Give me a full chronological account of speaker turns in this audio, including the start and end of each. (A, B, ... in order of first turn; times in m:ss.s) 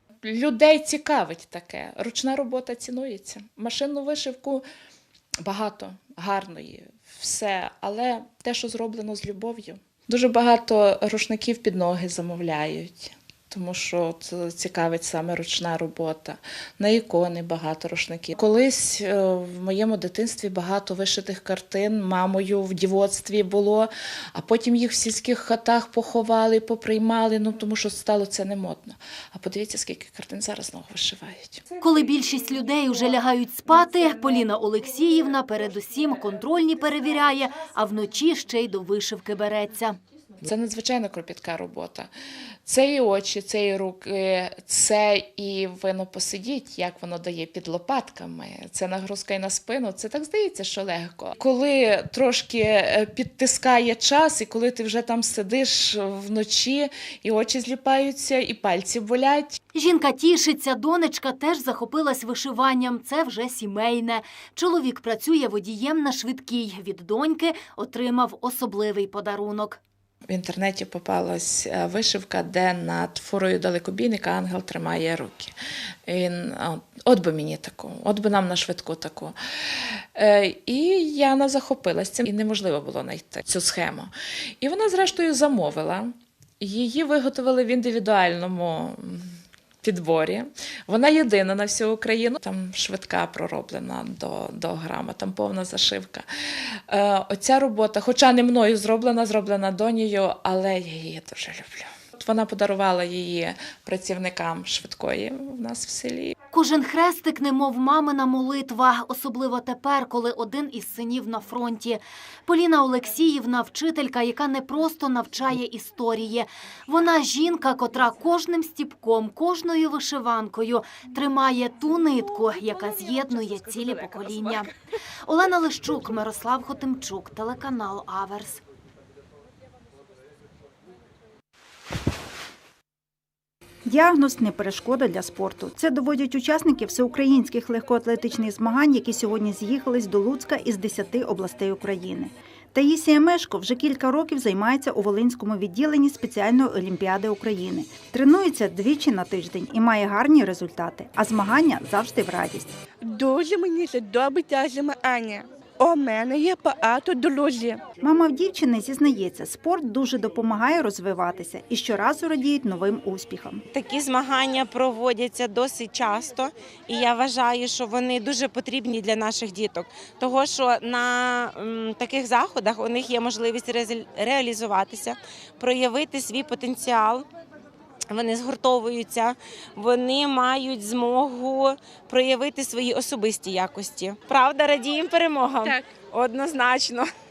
0:00.2-0:04.6 A
0:05.4-0:31.6 A
0:31.8-0:40.0 B
0:40.4-0:42.1 A
0:42.6-0:59.6 A
0:59.7-1:09.8 B
1:10.3-1:15.5 A
1:16.1-1:19.4 A
1:20.1-1:29.3 A
1:29.8-1:36.2 A
1:36.9-1:46.4 A
1:46.5-2:04.7 B
2:05.2-2:08.6 B
2:13.9-2:32.7 C
2:33.2-2:35.2 D
2:35.9-2:37.6 D
2:38.0-2:43.6 C
2:43.7-2:57.2 E
2:58.1-3:07.1 E